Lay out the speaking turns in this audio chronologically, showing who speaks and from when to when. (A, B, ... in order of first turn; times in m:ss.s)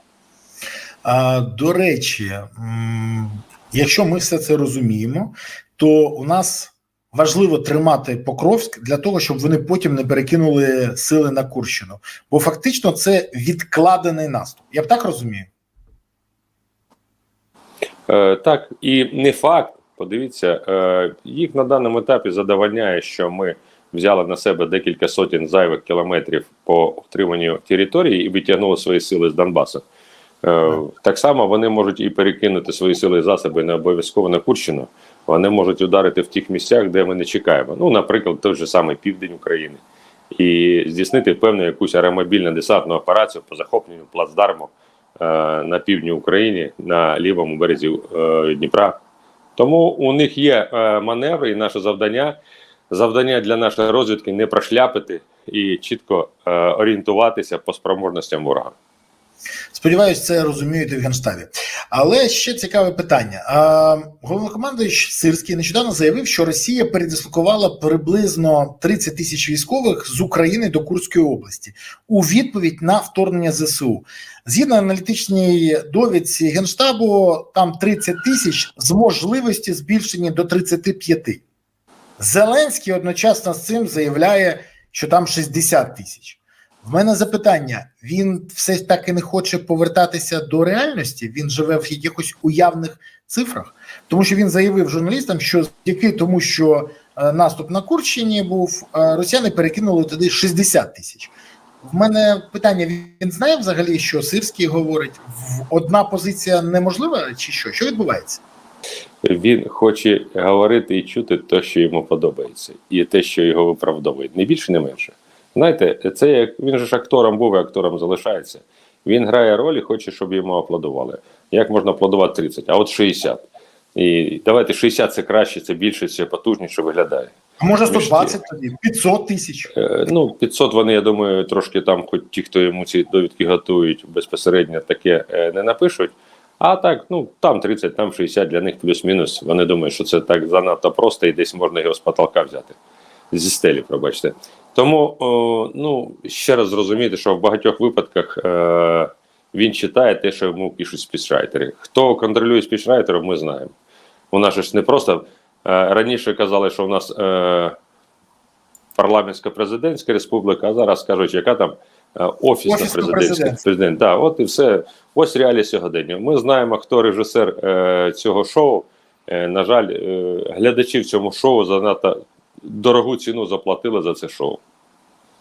0:01.0-0:15.5 A
0:18.1-0:29.8 B
0:30.4-0:39.8 B
0:40.3-0:49.0 B
0:49.6-0:52.4 B
0:52.9-0:58.7 B
0:59.7-1:21.4 A
1:22.2-1:41.3 A
1:41.8-1:48.4 A
1:49.2-2:07.3 B
2:07.6-2:09.7 A
2:07.9-2:08.4 B
2:09.7-2:22.8 B
2:23.3-2:33.7 B
2:34.3-2:37.8 B
2:39.0-2:54.6 B
2:42.6-2:43.6 A